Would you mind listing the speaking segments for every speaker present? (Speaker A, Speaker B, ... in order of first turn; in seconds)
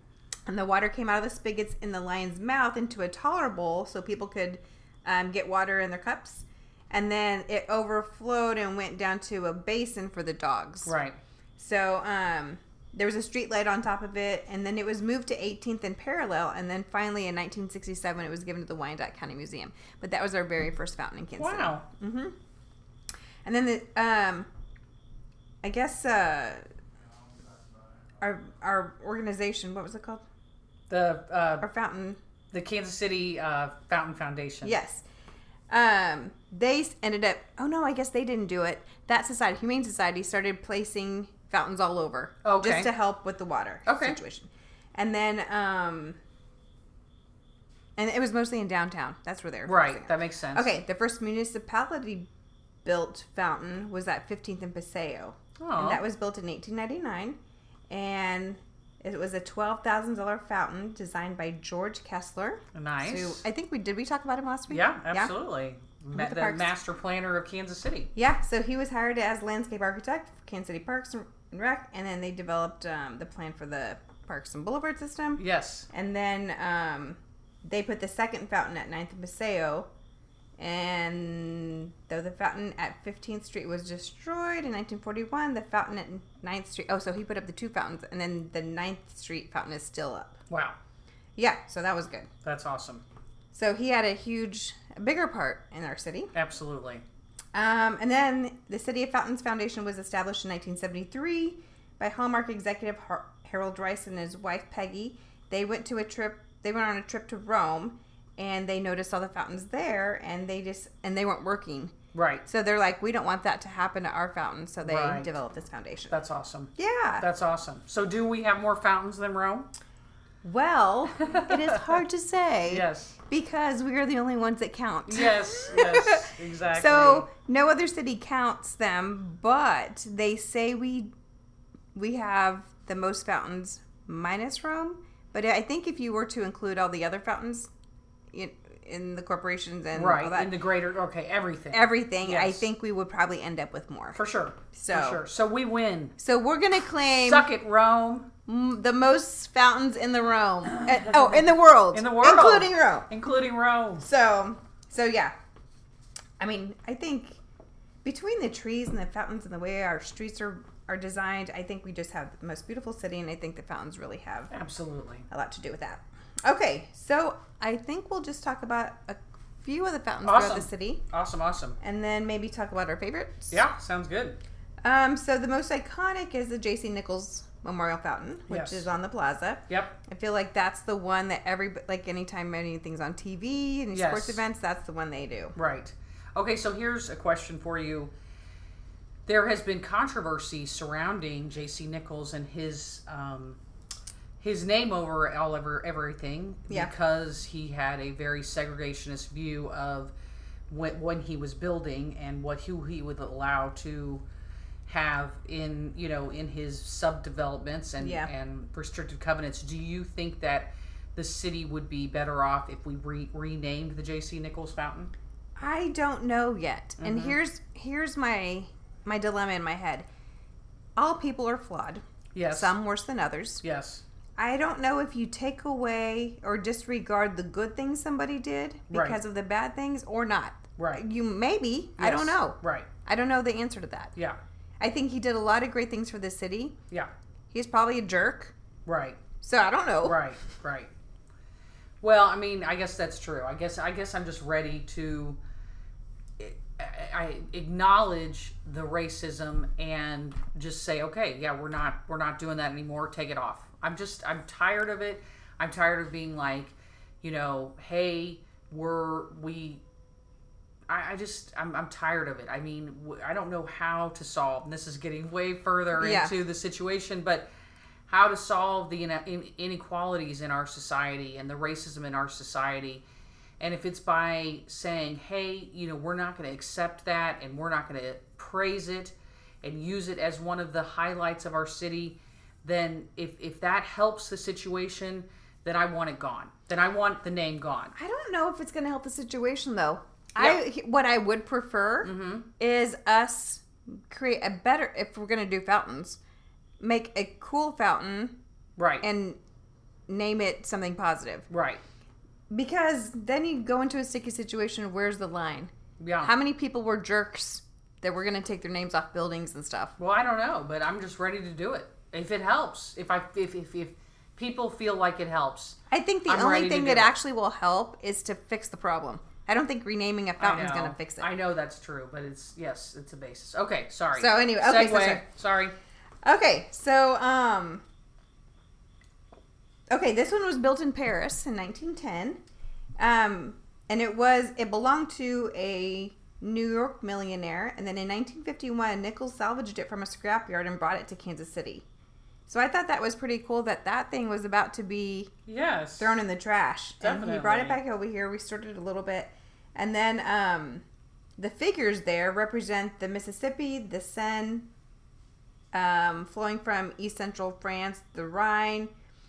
Speaker A: 0.5-10.9, 11.6-22.3, 23.4-24.5, 25.6-26.6, 28.2-30.2, 31.6-32.2, 34.6-35.0, 35.7-46.2, 48.0-52.3, 52.8-57.4, 57.9-65.3, 66.1-66.7, 68.1-79.9, 80.6-90.4, 91.4-92.3, 93.5-96.3, 97.5-111.9, 112.4-116.2, 116.8-117.2, 120.4-131.1, 131.9-137.7, 138.3-140.5, 141.7-145.2, 146.2-147.5, 148.4-153.1, 154.0-155.3, 156.4-157.4, 158.0-164.5, 165.3-171.0, 171.8-173.6, 174.8-185.6, 208.0-208.3, 215.6-220.1, 221.0-223.6, 224.4-234.1, 234.8-236.8, 237.5-238.5, 239.4-240.2, 266.0-266.3, 287.9-296.2, 296.8-298.3, 299.0-299.4, 300.1-301.5, 302.5-309.9, 315.9-321.3, 324.1-325.2, 326.2-327.8, 329.9-332.4, 333.0-341.8, 342.5-345.3, 346.0-350.8, 351.4-354.7, 355.7-358.9
Speaker B: 10.8-11.2, 21.4-21.8, 30.9-31.7, 32.5-34.8, 42.4-42.9, 43.9-44.2, 49.6-50.7, 55.6-56.0, 62.7-63.4, 64.7-68.1, 75.4-75.9, 90.5-90.8, 92.4-93.0, 96.3-97.0, 112.1-112.4, 114.8-115.3, 116.1-119.7, 121.2-122.0, 122.7-123.1, 125.0-127.3, 139.9-142.7, 144.1-146.1, 147.2-148.3, 150.6-154.0, 164.5-165.2, 170.2-171.8, 173.5-174.4, 178.5-178.9, 179.7-179.9, 183.9-184.4, 185.6-188.1, 189.2-193.6, 194.4-200.1, 200.7-204.2, 204.8-215.1, 217.0-217.4, 222.3-222.8, 223.6-224.0, 228.9-229.2, 230.8-231.0, 232.0-232.9, 238.8-239.2, 240.0-240.9, 242.0-245.4, 246.4-259.8, 260.9-267.5, 268.1-273.0, 273.6-287.9, 292.0-292.5, 298.8-299.1, 301.5-301.8, 306.0-306.3, 310.0-317.1, 320.4-325.7, 345.4-346.1, 347.0-347.8